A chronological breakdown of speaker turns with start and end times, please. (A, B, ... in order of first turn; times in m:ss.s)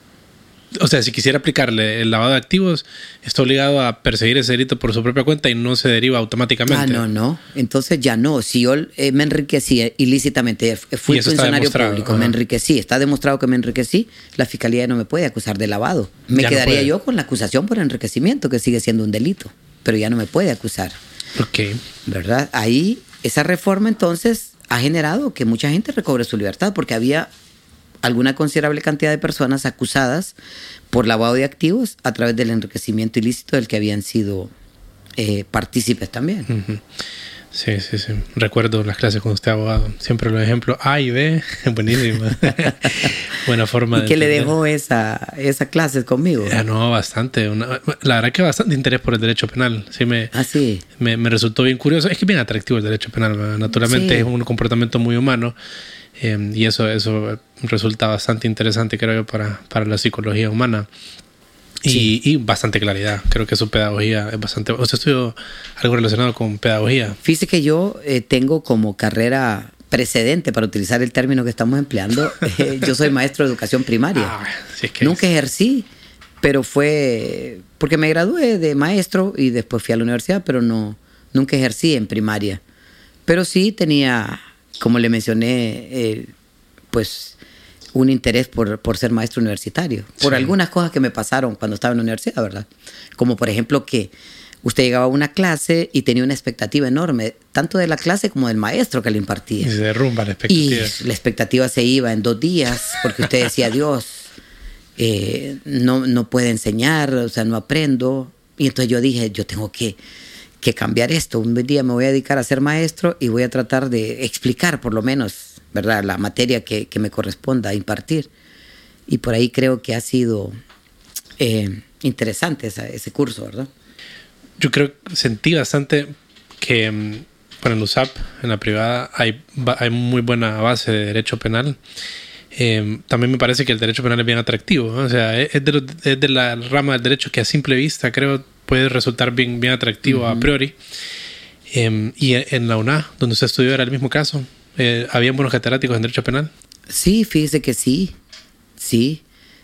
0:00.7-0:07.0 A
0:06.7-0:21.0 B
0:11.1-0:12.4 A
0:16.4-0:16.9 A
0:21.4-0:21.8 A
0:22.1-0:27.3 B
0:28.0-0:30.3 B
0:30.9-0:34.5 B
0:35.2-0:36.5 B
0:36.5-0:36.8 A
0:37.5-0:44.5 A
0:43.9-0:46.6 B
0:46.5-0:50.3 A
0:50.3-0:50.8 B
0:51.0-0:55.6 A
0:53.8-0:54.3 B
0:56.2-1:00.9 A
1:01.8-1:07.2 A
1:07.2-1:14.4 B
1:12.6-1:12.9 A
1:14.2-1:15.2 A
1:15.0-1:15.9 B
1:16.4-1:22.6 B
1:23.3-1:26.3 B
1:26.9-1:27.4 B
1:27.9-1:34.1 B
1:30.2-1:30.5 A
1:34.6-1:39.7 B
1:39.6-1:41.0 A
1:40.5-1:44.3 B
1:45.0-1:50.0 B
1:50.6-1:58.3 B
1:59.1-2:00.6 B
2:01.4-2:03.7 B
2:04.6-2:11.8 A
2:12.5-2:20.8 A
2:20.0-2:20.5 B
2:21.7-2:26.5 A
2:26.9-2:28.1 B
2:28.8-2:29.2 B